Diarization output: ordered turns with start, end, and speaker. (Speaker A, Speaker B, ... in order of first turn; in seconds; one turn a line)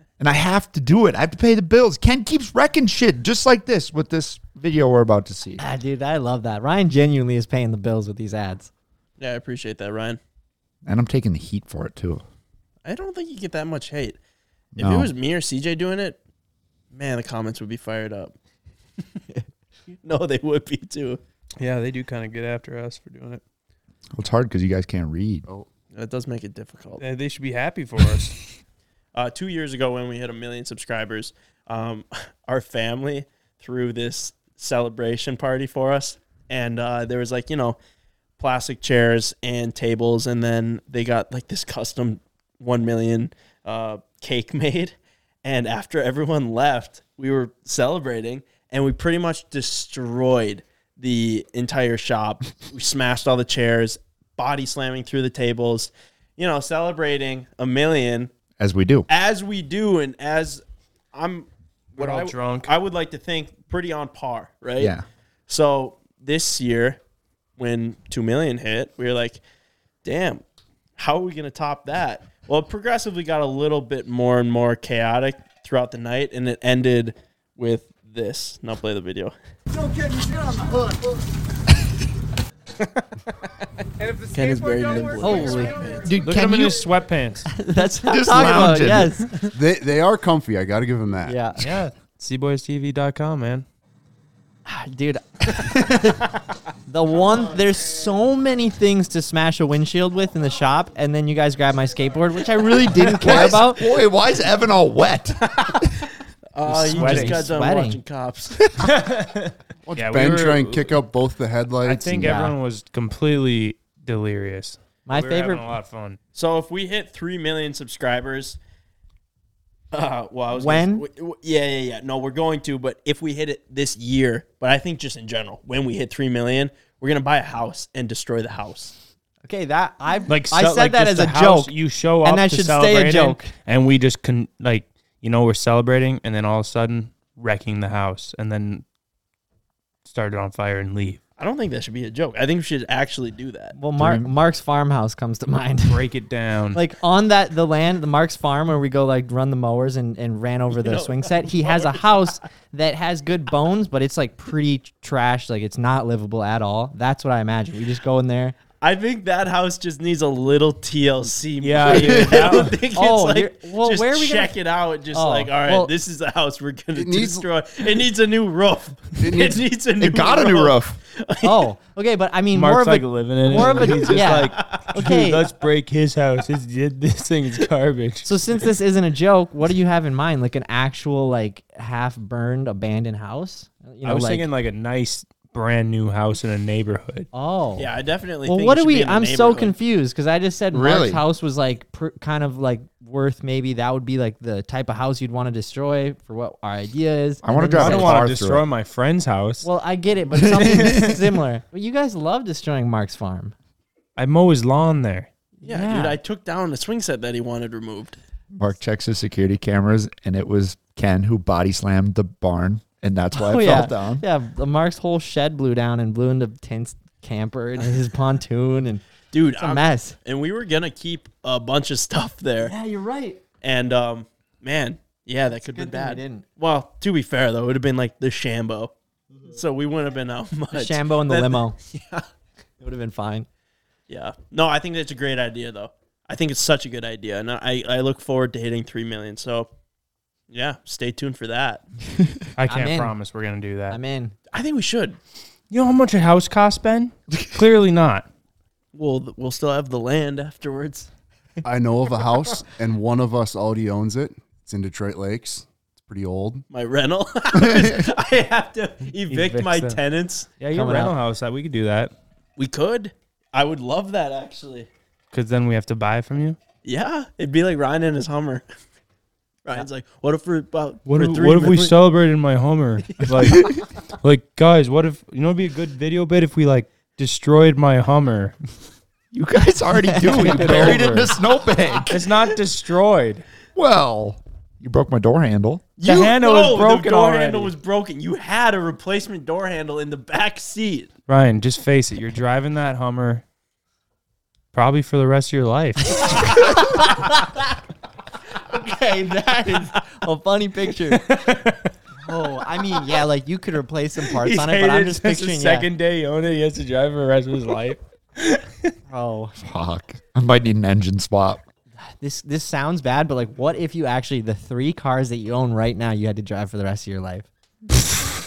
Speaker A: 0.2-5.6
Speaker B: 5.6-8.7
Speaker C: 9.2-10.2
Speaker A: 10.9-12.2
Speaker C: 12.8-14.2
Speaker C: 14.8-16.2
Speaker A: 14.8-15.1
Speaker C: 16.9-18.3
Speaker C: 20.0-21.2
Speaker D: 21.6-23.4
Speaker A: 24.1-25.4
Speaker C: 25.9-27.0
Speaker D: 27.0-28.4
Speaker C: 29.1-37.8
Speaker C: 38.4-58.3
Speaker A: 58.6-59.1
Speaker C: 59.1-60.6
Speaker C: 61.1-64.9
Speaker D: 62.0-62.7
Speaker A: 64.8-65.0
Speaker C: 65.5-67.0
Speaker C: 67.6-69.4
Speaker C: 70.0-70.4
Speaker C: 71.0-79.3
Speaker C: 84.3-86.0
Speaker B: 85.2-86.0
Speaker A: 86.0-86.8
Speaker D: 86.2-87.5
Speaker B: 87.5-89.5
Speaker A: 88.0-89.2
Speaker E: 89.5-91.4
Speaker B: 91.3-91.7
Speaker D: 91.6-93.7
Speaker B: 94.7-96.3
Speaker B: 96.9-103.8
Speaker A: 103.0-105.6
Speaker C: 105.5-105.9
Speaker C: 106.5-108.7
Speaker B: 106.7-108.0
Speaker D: 106.7-107.5
Speaker D: 108.8-111.0
Speaker E: 109.9-112.3
Speaker D: 111.8-116.2
Speaker B: 112.2-112.5
Speaker B: 115.1-115.7
Speaker C: 116.3-118.6
Speaker C: 119.9-128.9
Speaker B: 120.5-121.0
Speaker B: 129.4-133.5
Speaker D: 130.3-138.8
Speaker D: 140.1-141.2
Speaker C: 141.4-143.8
Speaker B: 143.8-146.0
Speaker A: 144.0-144.3
Speaker D: 145.9-146.8
Speaker B: 146.7-158.6
Speaker C: 150.7-152.3
Speaker C: 158.8-171.7
Speaker D: 161.6-162.8
Speaker B: 162.9-164.5
Speaker B: 165.1-165.9
Speaker E: 166.9-167.5
Speaker E: 169.2-169.7
Speaker A: 170.0-171.0
Speaker B: 171.4-175.5
Speaker D: 172.5-178.3
Speaker C: 173.6-174.8
Speaker B: 178.2-184.5
Speaker D: 184.0-187.3
Speaker B: 187.3-187.9
Speaker C: 187.8-189.8
Speaker B: 188.5-198.2
Speaker A: 190.7-191.2
Speaker A: 197.4-198.7
Speaker D: 197.8-199.7
Speaker B: 199.6-203.5
Speaker A: 200.3-201.2
Speaker D: 204.2-205.3
Speaker B: 205.6-206.2
Speaker C: 205.6-208.2
Speaker A: 208.5-214.2
Speaker B: 213.3-219.0
Speaker C: 219.3-222.7
Speaker B: 219.6-220.2
Speaker B: 222.6-223.4
Speaker C: 223.6-228.9
Speaker B: 225.7-226.4
Speaker C: 229.5-232.2
Speaker B: 230.7-231.8
Speaker B: 232.8-233.5
Speaker C: 234.1-239.7
Speaker C: 240.5-241.8
Speaker D: 242.6-244.0
Speaker B: 242.7-243.2
Speaker B: 243.9-244.3
Speaker C: 244.5-245.2
Speaker D: 245.7-248.3
Speaker C: 248.9-251.1
Speaker E: 251.6-256.6
Speaker C: 256.7-260.5
Speaker B: 259.3-259.9
Speaker D: 259.3-259.9
Speaker D: 260.6-262.1
Speaker B: 260.7-261.2
Speaker C: 262.6-264.9
Speaker D: 265.3-266.6
Speaker C: 266.8-268.6
Speaker C: 269.7-271.9
Speaker D: 271.1-278.6
Speaker C: 273.2-273.5
Speaker A: 279.3-282.4
Speaker B: 280.0-281.0
Speaker D: 280.3-281.3
Speaker D: 282.1-283.4
Speaker A: 283.8-285.9
Speaker C: 286.0-291.1
Speaker D: 286.0-287.7
Speaker D: 291.3-293.4
Speaker D: 294.7-296.6
Speaker B: 296.4-297.4
Speaker B: 298.7-301.2
Speaker D: 301.1-301.9
Speaker B: 302.2-305.9
Speaker D: 304.3-308.9
Speaker B: 309.1-309.6
Speaker A: 309.6-311.6
Speaker B: 312.0-317.5